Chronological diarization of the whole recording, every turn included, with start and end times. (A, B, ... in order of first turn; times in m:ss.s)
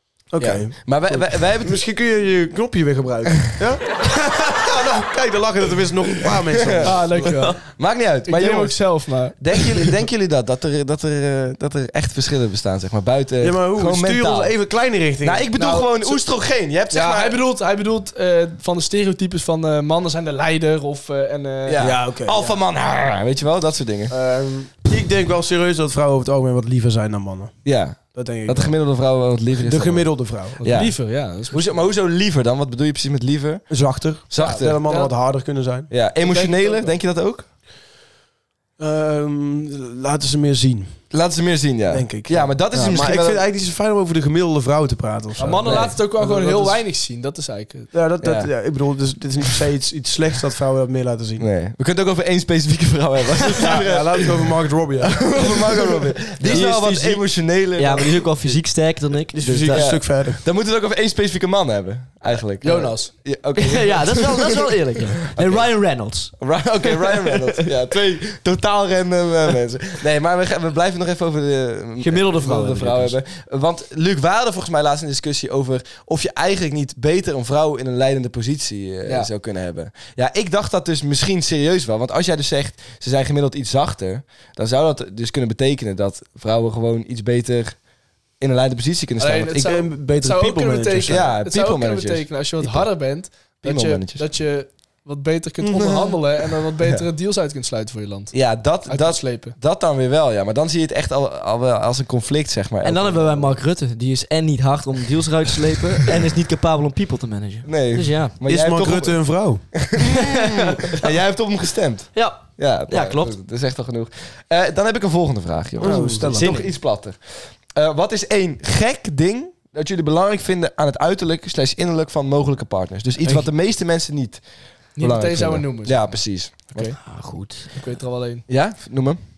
0:00.3-0:07.5 A
0:00.4-0:01.8 B
0:06.4-0:06.9 B
0:06.8-0:07.6 C
0:07.6-0:14.5 B
0:08.2-0:09.9 C
0:13.4-0:15.5 A
0:15.2-0:17.4 B
0:15.6-0:16.3 C
0:16.9-0:21.9 C
0:21.7-0:24.1 B
0:21.8-0:22.6 A
0:24.1-0:28.8 A
0:27.6-0:31.0 B
0:29.6-0:30.8 A
0:30.7-0:31.9 C
0:31.5-0:34.8 B
0:33.7-0:35.9 A
0:34.4-0:35.1 C
0:35.9-0:37.5 B
0:36.2-0:37.0 C
0:38.8-0:41.1 A
0:41.1-0:43.4 B
0:41.9-0:46.8 A
0:45.4-0:47.9 C
0:45.6-0:46.0 B
0:47.9-0:51.4 A
0:48.2-0:48.5 B
0:51.4-0:58.6 B
0:53.5-0:55.9 A
0:56.4-1:00.0 D
0:59.4-1:00.4 A
0:59.7-1:04.7 B
1:02.6-1:03.1 C
1:03.6-1:07.3 D
1:05.3-1:05.7 B
1:06.4-1:27.8 B
1:12.0-1:13.2 D
1:28.4-1:29.7 B
1:29.2-1:39.6 C
1:29.6-1:31.3 A
1:31.1-1:32.9 B
1:33.6-1:34.2 B
1:35.6-1:36.1 A
1:38.3-1:43.6 B
1:42.8-1:48.4 D
1:47.7-2:04.4 B
1:48.5-1:49.7 A
1:50.1-1:51.1 D
1:52.2-1:53.3 D
1:55.8-1:56.6 A
1:55.8-1:56.7 D
1:55.9-1:56.2 C
2:05.0-2:06.1 C
2:05.0-2:06.9 B
2:06.7-2:07.0 C
2:07.0-2:07.8 D
2:07.7-2:08.4 C
2:08.5-2:09.2 B